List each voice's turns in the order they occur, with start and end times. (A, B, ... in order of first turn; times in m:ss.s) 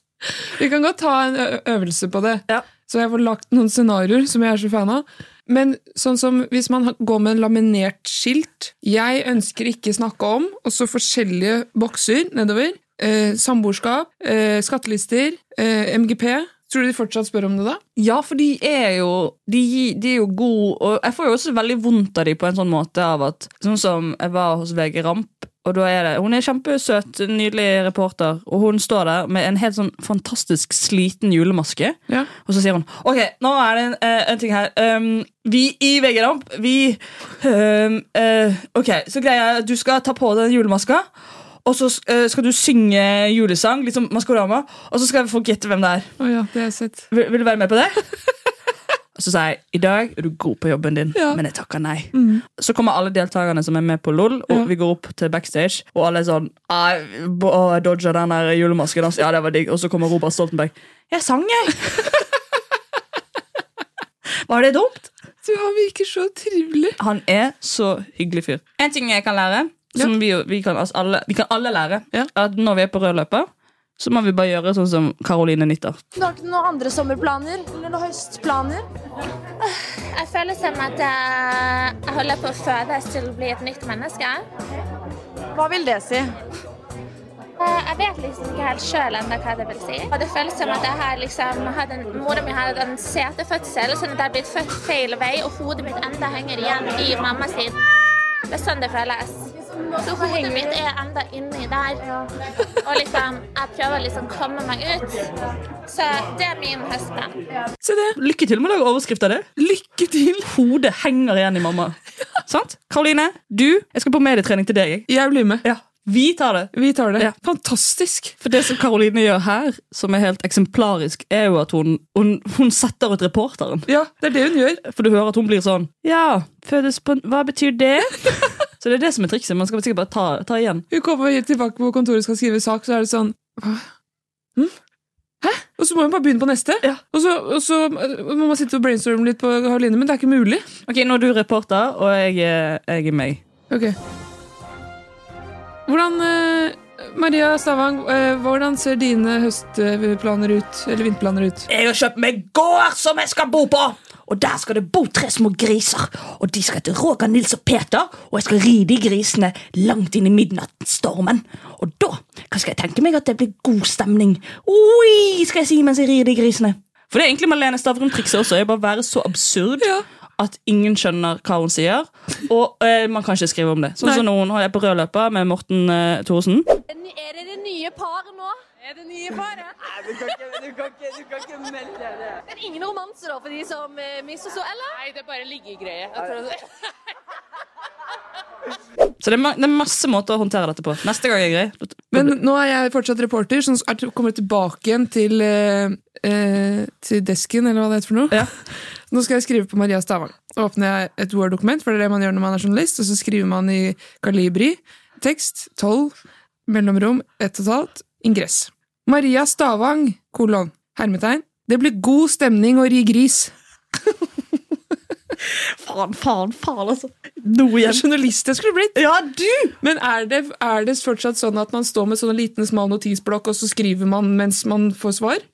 0:00.2-0:17.8 A
0:18.0-0:41.1 B
0:41.6-0:46.1 B
0:46.2-0:47.1 A
0:47.1-0:48.0 B
0:49.2-1:02.1 B
0:51.2-0:51.4 A
0:52.1-0:52.4 A
1:04.5-1:05.1 B
1:05.4-1:07.0 A
1:07.0-1:13.5 B
1:14.0-1:16.0 B
1:16.2-1:18.8 C
1:19.7-1:24.4 D
1:25.5-1:26.3 C
1:27.6-1:37.8 D
1:38.5-1:42.1 D
1:42.8-1:45.3 D
1:45.9-1:47.3 D
1:47.8-1:48.2 A
1:48.2-1:49.5 B
1:49.6-1:50.5 A
1:50.4-1:55.1 B
1:55.1-1:55.6 A
1:55.6-1:57.3 B
1:56.7-1:58.4 A
1:58.4-2:03.9 B
2:03.9-2:04.8 A
2:04.8-2:10.8 B
2:10.9-2:13.9 A
2:15.4-2:20.6 A
2:20.9-2:23.4 B
2:23.7-2:24.0 A
2:25.9-2:31.7 A
2:31.7-2:56.7 B
2:56.9-3:06.6 C
3:09.2-3:12.3 B
3:12.1-3:18.6 A
3:19.1-3:26.1 A
3:26.7-3:33.5 A
3:35.5-3:38.0 B
3:37.8-3:39.0 A
3:39.0-3:39.8 B
3:39.8-3:45.4 A